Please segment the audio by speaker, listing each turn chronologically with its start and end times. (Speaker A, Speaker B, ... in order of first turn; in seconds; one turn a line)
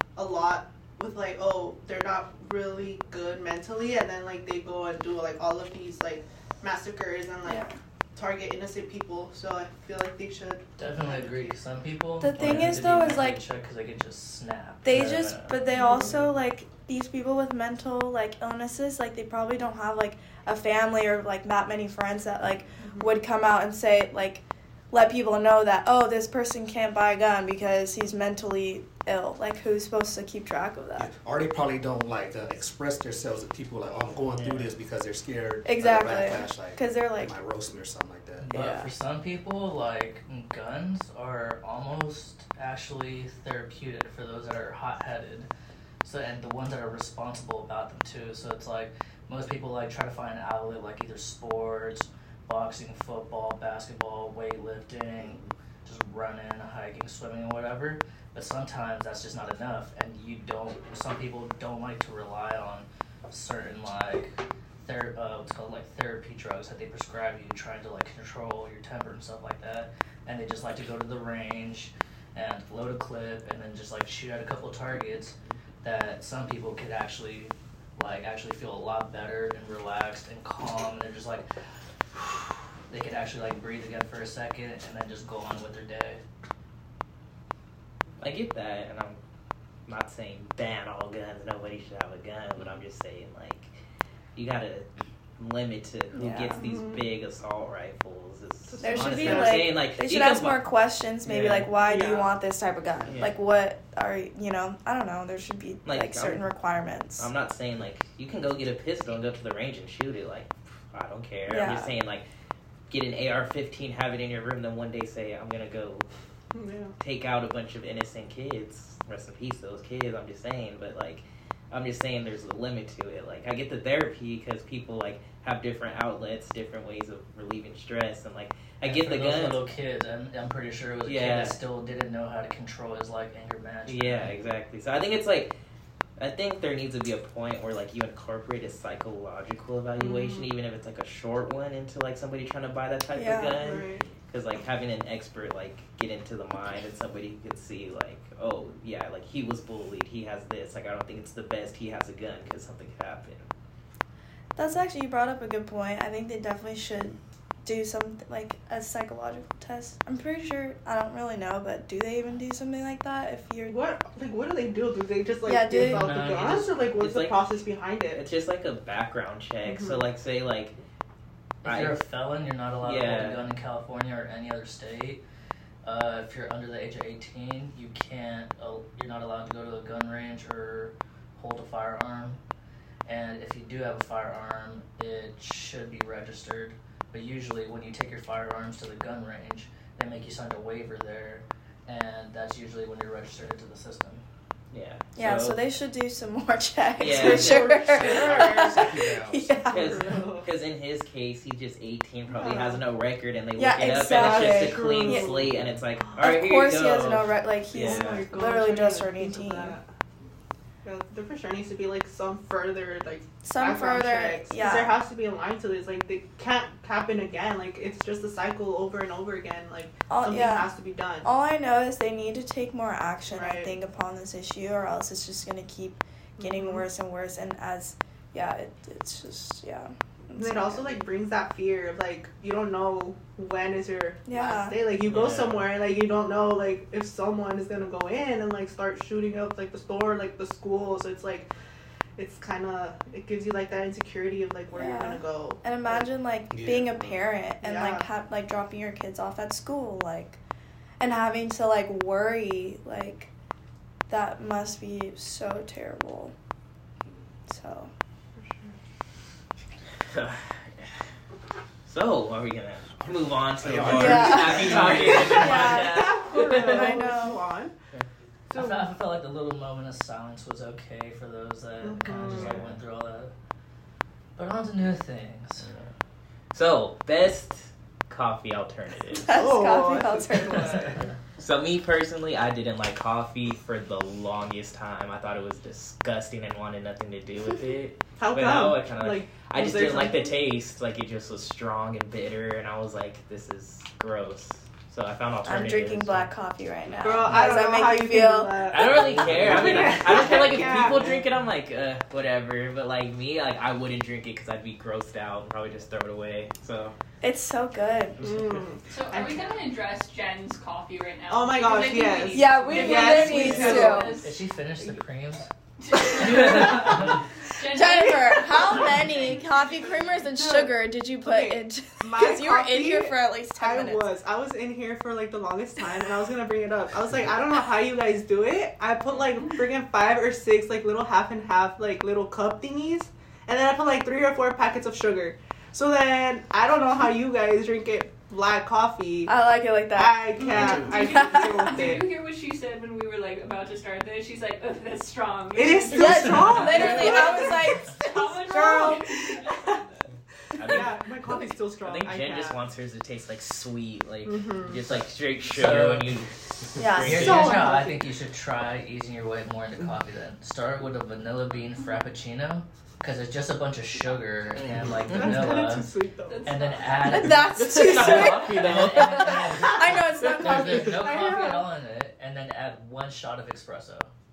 Speaker A: 0.2-10.7
Speaker B: 7.4-7.7
Speaker C: 10.8-15.6
Speaker B: 12.2-13.4
Speaker D: 12.4-12.7
Speaker B: 14.8-31.1
Speaker A: 15.7-16.2
Speaker A: 22.8-23.1
Speaker E: 31.0-38.5
Speaker B: 35.6-37.4
Speaker C: 38.4-45.5
Speaker B: 38.5-38.9
Speaker C: 46.0-81.5
Speaker E: 55.2-55.5
Speaker C: 82.9-86.2
Speaker D: 88.2-89.2
Speaker D: 89.9-93.8
Speaker D: 94.3-94.9
Speaker D: 95.4-100.7
Speaker B: 96.2-96.6
Speaker A: 96.6-97.0
Speaker A: 98.7-99.7
Speaker B: 98.8-107.3
Speaker D: 101.2-101.7
Speaker A: 101.8-102.3
Speaker D: 103.1-103.3
Speaker D: 105.8-106.5
Speaker D: 107.2-112.2
Speaker B: 111.5-111.9
Speaker D: 112.9-116.1
Speaker A: 116.5-116.9
Speaker D: 117.0-129.6
Speaker C: 128.8-134.3
Speaker D: 131.1-131.6
Speaker D: 133.9-135.5
Speaker D: 136.2-153.5
Speaker A: 140.0-140.5
Speaker B: 143.1-143.7
Speaker A: 143.6-144.1
Speaker B: 154.6-163.8
Speaker A: 163.7-168.3
Speaker B: 165.4-166.1
Speaker C: 165.7-166.8
Speaker D: 167.0-167.4
Speaker D: 168.1-170.8
Speaker A: 169.6-170.1
Speaker D: 171.6-172.0
Speaker C: 171.6-175.2
Speaker D: 172.8-173.4
Speaker C: 175.8-182.4
Speaker C: 183.1-194.2
Speaker D: 194.7-195.6
Speaker B: 195.2-200.2
Speaker D: 197.0-198.6
Speaker A: 197.1-198.6
Speaker E: 197.9-199.5
Speaker A: 199.7-200.5
Speaker D: 199.7-208.3
Speaker A: 202.3-202.8
Speaker B: 203.6-205.4
Speaker A: 204.0-205.6
Speaker B: 206.2-209.8
Speaker A: 207.7-209.9
Speaker A: 210.8-221.3
Speaker B: 213.4-215.0
Speaker B: 220.1-231.0
Speaker A: 223.3-223.8
Speaker A: 226.4-226.8
Speaker A: 230.3-241.5
Speaker B: 234.2-234.8
Speaker D: 235.0-235.7
Speaker A: 242.2-246.1
Speaker B: 244.7-250.4
Speaker E: 246.5-247.3
Speaker A: 247.6-248.1
Speaker B: 251.0-253.3
Speaker B: 254.1-256.3
Speaker B: 257.5-257.9
Speaker D: 260.1-260.9
Speaker D: 261.9-266.8
Speaker E: 263.6-265.8
Speaker B: 263.9-267.5
Speaker A: 265.3-267.7
Speaker A: 268.5-268.9
Speaker C: 268.5-273.3
Speaker A: 271.8-272.6
Speaker D: 272.1-272.6
Speaker C: 274.4-275.7
Speaker D: 275.6-275.9
Speaker D: 276.5-279.4
Speaker A: 279.3-281.1
Speaker B: 279.3-281.0
Speaker D: 281.4-296.3
Speaker A: 288.2-290.4
Speaker B: 295.4-299.0
Speaker A: 297.0-301.3
Speaker D: 298.7-306.9
Speaker E: 299.2-299.6
Speaker B: 307.2-308.3
Speaker A: 308.2-309.7
Speaker F: 308.9-314.4
Speaker A: 311.3-314.2
Speaker B: 312.3-314.2
Speaker C: 313.2-315.5
Speaker F: 315.8-320.0
Speaker C: 316.1-317.2
Speaker A: 316.4-316.8
Speaker B: 317.6-324.2
Speaker A: 320.3-339.3
Speaker B: 339.3-341.7
Speaker A: 339.9-342.1
Speaker F: 340.5-350.1
Speaker E: 340.5-340.9
Speaker A: 345.5-349.8
Speaker B: 345.9-348.8
Speaker C: 346.6-346.9
Speaker D: 350.6-357.6
Speaker A: 350.6-352.6
Speaker A: 354.2-354.8
Speaker C: 354.9-356.1
Speaker B: 356.8-357.8
Speaker C: 357.0-365.9
Speaker A: 357.1-358.0
Speaker D: 364.6-365.4
Speaker A: 365.1-366.8
Speaker F: 366.3-367.2
Speaker C: 366.4-374.1
Speaker B: 367.1-371.4
Speaker A: 367.3-368.5
Speaker D: 367.6-369.6
Speaker A: 369.5-371.7